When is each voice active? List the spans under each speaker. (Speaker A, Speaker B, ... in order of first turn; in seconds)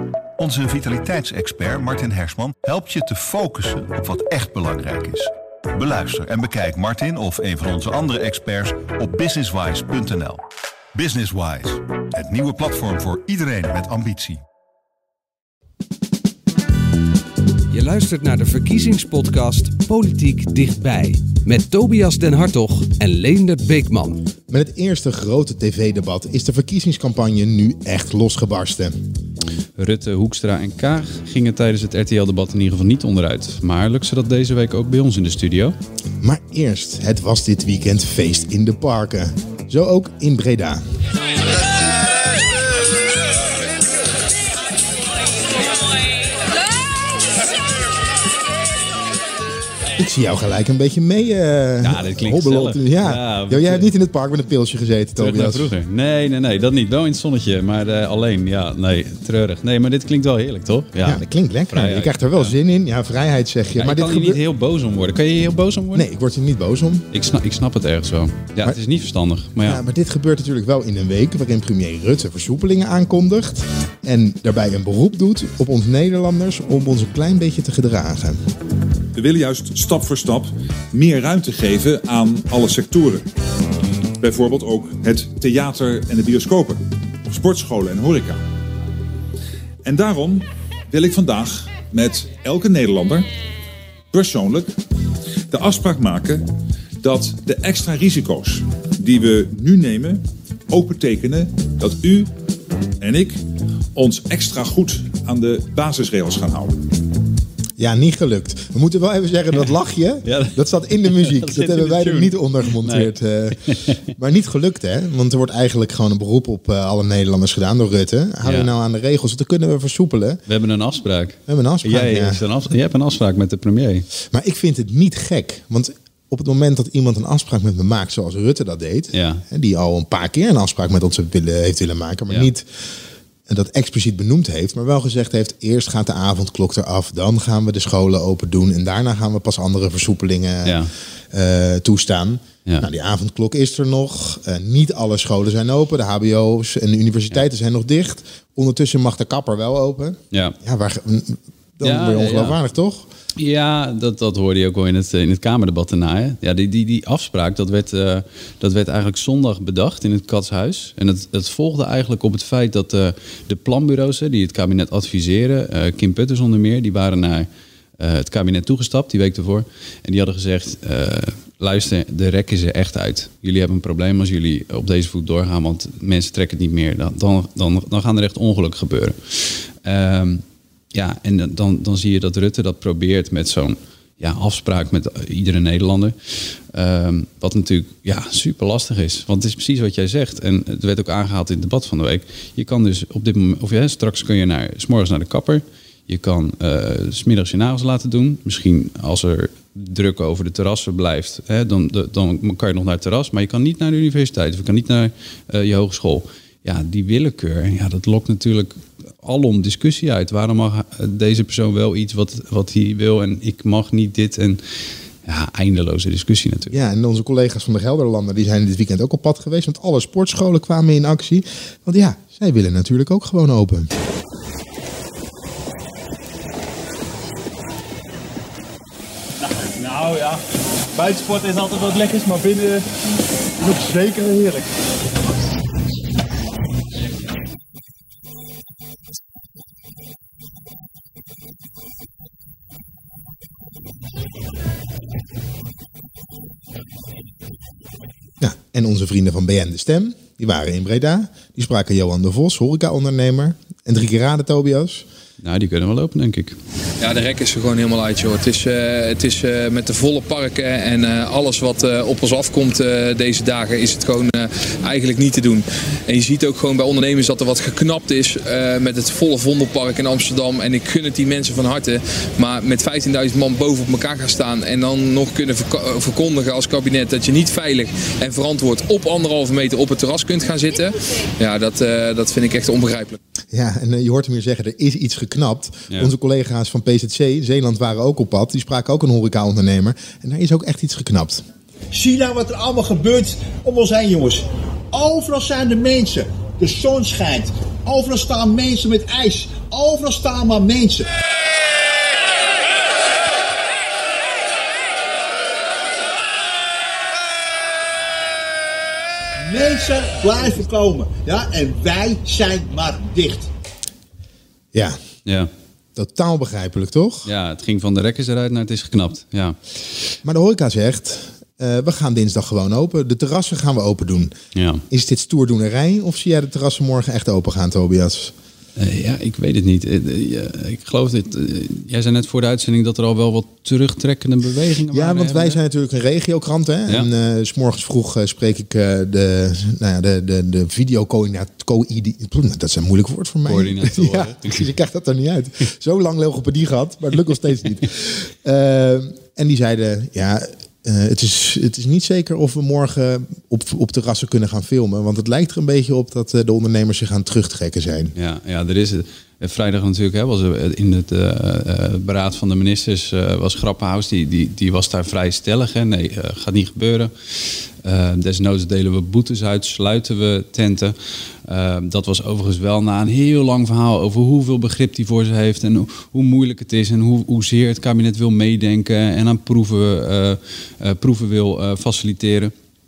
Speaker A: 0.4-10.4, 10.9-14.4
Speaker B: 17.7-24.2
Speaker C: 24.5-29.0, 36.2-40.8, 50.0-55.7, 61.0-64.4, 65.9-67.1, 69.6-78.4, 107.8-120.4, 121.5-122.5, 124.3-132.7, 133.5-140.8, 141.3-153.1, 216.7-223.9, 248.4-255.1, 283.5-291.4, 314.7-315.0, 316.0-317.3, 320.2-324.3, 324.9-328.3, 334.9-358.1
Speaker D: 29.8-35.8, 51.8-53.9, 55.2-62.5, 63.8-66.1, 67.1-69.8, 110.2-114.0, 118.4-118.7, 120.5-124.1, 129.1-129.4, 140.6-140.9, 151.8-152.6, 153.4-167.5, 168.0-186.2, 186.7-214.6, 215.2-216.8, 255.4-256.6, 317.2-319.6, 324.6-324.8, 328.8-335.6, 343.5-344.6, 358.1-367.1, 367.8-370.9, 371.5-382.5
Speaker E: 79.2-83.3, 84.2-88.4, 89.8-93.3, 94.1-94.7, 95.5-96.4, 97.0-102.3, 103.0-103.4, 104.0-106.8
Speaker F: 229.8-230.3, 231.0-232.7, 233.6-234.6
Speaker G: 257.0-283.2
Speaker H: 291.9-301.1, 309.4-313.5